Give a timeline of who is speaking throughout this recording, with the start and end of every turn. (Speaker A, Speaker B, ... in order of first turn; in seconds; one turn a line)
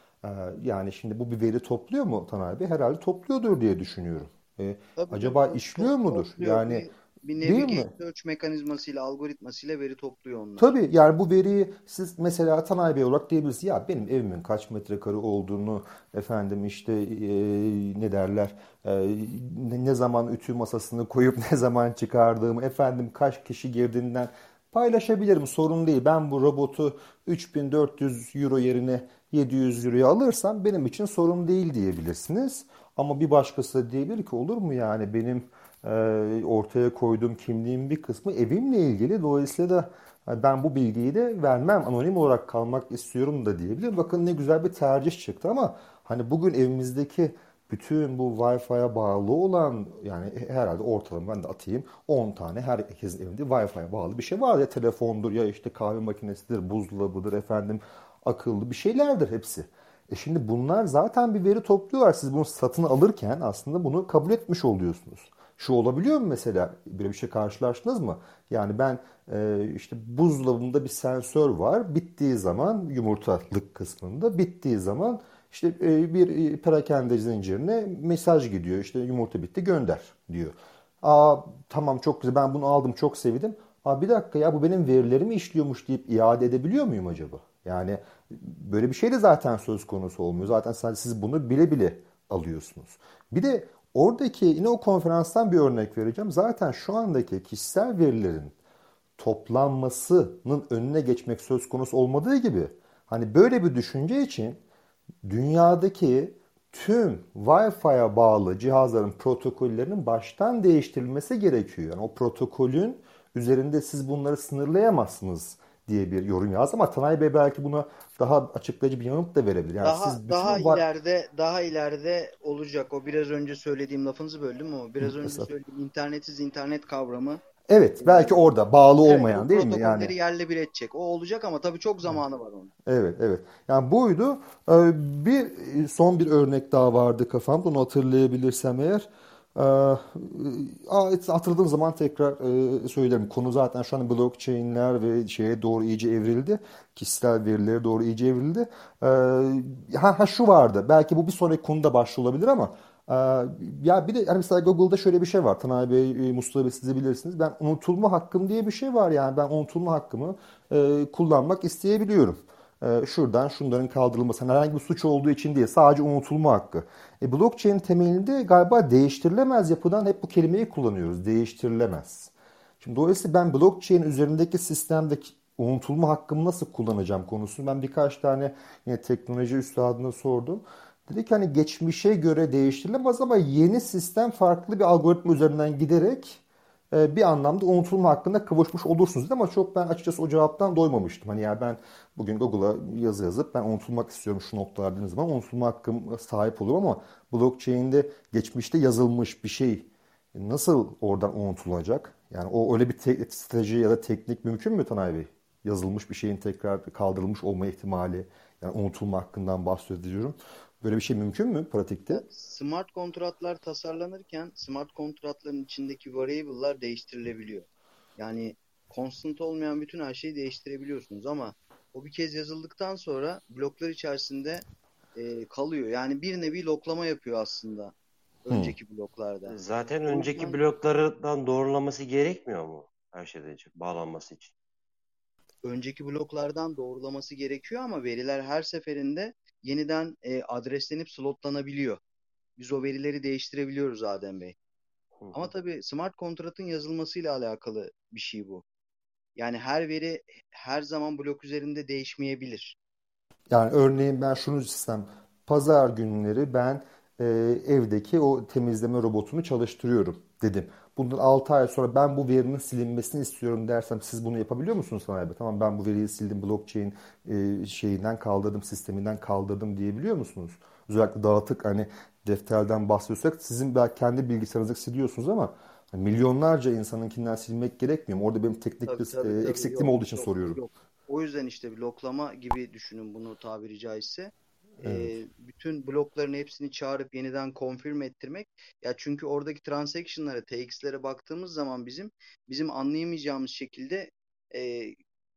Speaker A: 0.2-6.9
Speaker B: 5.0-10.7
Speaker A: 7.4-7.9
Speaker A: 10.6-98.5
Speaker A: 99.2-104.6
Speaker A: 105.2-120.8
Speaker B: 119.8-127.4
Speaker A: 125.0-125.5
Speaker A: 127.7-130.1
Speaker B: 128.0-128.3
Speaker B: 129.1-132.7
Speaker A: 132.9-212.2
Speaker B: 212.1-227.9
Speaker B: 228.5-230.6
Speaker A: 228.5-228.8
Speaker C: 229.5-234.5
Speaker B: 235.6-242.0
Speaker B: 242.6-244.6
Speaker C: 245.2-245.5
Speaker B: 245.3-248.6
Speaker B: 249.4-252.8
Speaker A: 253.5-280.6
Speaker B: 278.9-295.0
Speaker A: 284.8-285.1